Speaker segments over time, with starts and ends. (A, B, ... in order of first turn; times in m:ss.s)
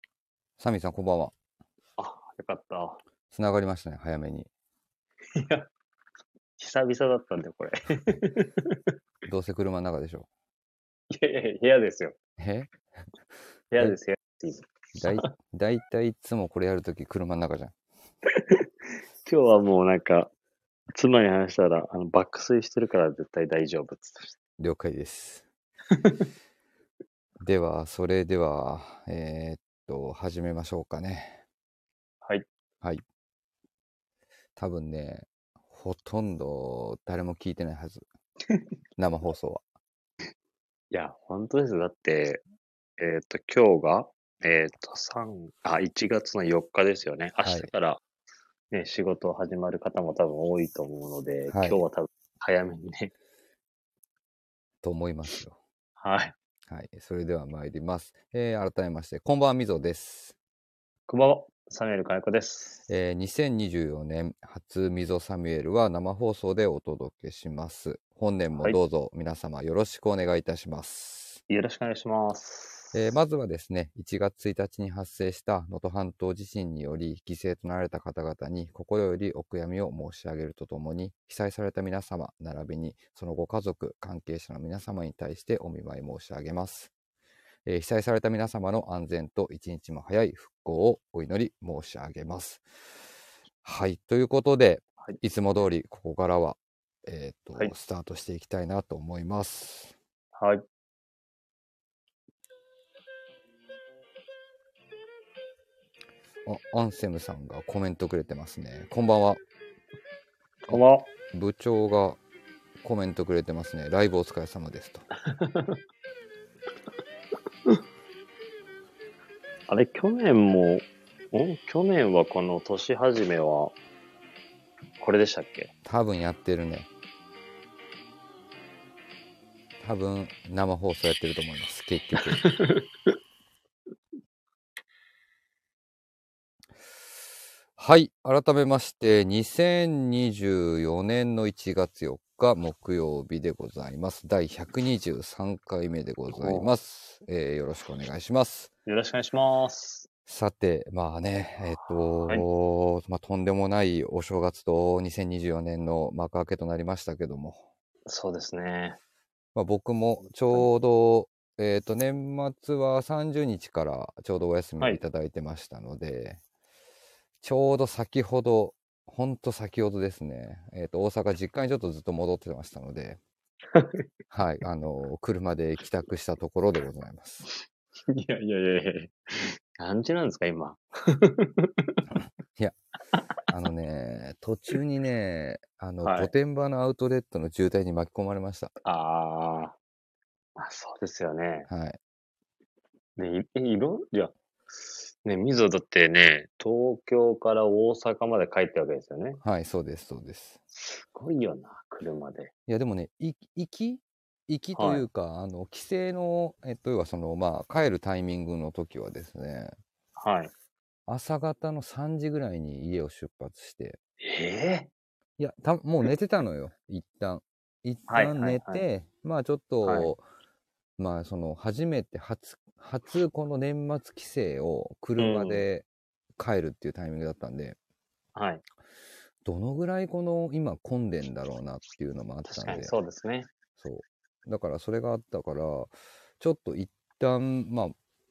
0:00.6-0:01.3 A
0:02.0-0:03.0 B
0:03.3-0:04.5 A
0:05.4-0:05.7 B
0:06.6-0:08.9 B
0:09.3-0:10.3 A
0:11.1-0:12.2 B
0:12.4-0:12.7 A
0:13.7-0:15.3 B
0:15.0-0:17.7 A
0:19.2-0:20.3 B
0:20.9-0:24.4 B
0:24.6-0:25.5 A
0:25.9-0:26.3 B
0:27.4-0:31.4 A
0:34.6-0:38.0 A
0:39.0-0:39.6 A
0:40.9-0:42.4 B
0:43.0-0:48.0 B
0:47.4-0:47.7 A
0:48.7-0:53.1 B
0:51.5-0:51.8 A
0:54.8-0:55.6 A
0:56.0-0:56.4 B
0:56.7-1:00.4 A
1:01.1-1:02.8 B
1:02.9-1:11.4 A
1:11.5-1:13.0 B
1:12.9-1:26.9 A
1:27.6-1:32.6 A
1:33.6-1:39.9 A
1:40.4-1:40.6 B
1:46.4-1:49.4 A
1:50.7-1:51.1 B
1:50.7-1:52.2 A
1:52.8-1:55.0 A
1:55.2-1:55.8 B
1:59.7-2:03.8 B
2:05.0-2:05.7 B
2:05.8-2:06.9 A
2:09.8-2:12.5 A
2:12.3-2:13.1 B
2:17.8-2:28.7 A
2:26.3-2:26.7 B
2:28.9-2:30.1 B
2:30.3-2:37.6 A
2:31.8-2:32.4 B
2:38.1-2:39.0 B
2:39.6-2:46.4 A
2:47.4-2:53.2 A
2:53.7-2:54.1 B
2:54.3-2:57.5 A
2:57.6-3:02.0 B
3:03.5-3:08.7 A
3:06.0-3:06.3 B
3:08.8-3:09.8 B
3:10.6-3:11.7 B
3:11.7-3:12.0 A
3:13.2-3:19.4 B
3:19.4-3:20.6 A
3:20.8-3:22.5 B
3:22.7-3:29.8 A
3:24.8-3:25.0 B
3:30.2-3:30.5 B
3:31.1-3:34.0 A
3:34.2-3:34.9 B
3:35.4-3:40.2 A
3:38.1-3:38.8 B
3:39.8-3:40.1 B
3:41.0-3:45.8 A
3:45.2-3:45.6 B
3:46.4-3:47.8 A
3:48.4-3:48.6 B
3:49.4-3:52.9 A
3:52.4-3:53.5 B
3:53.8-3:57.9 A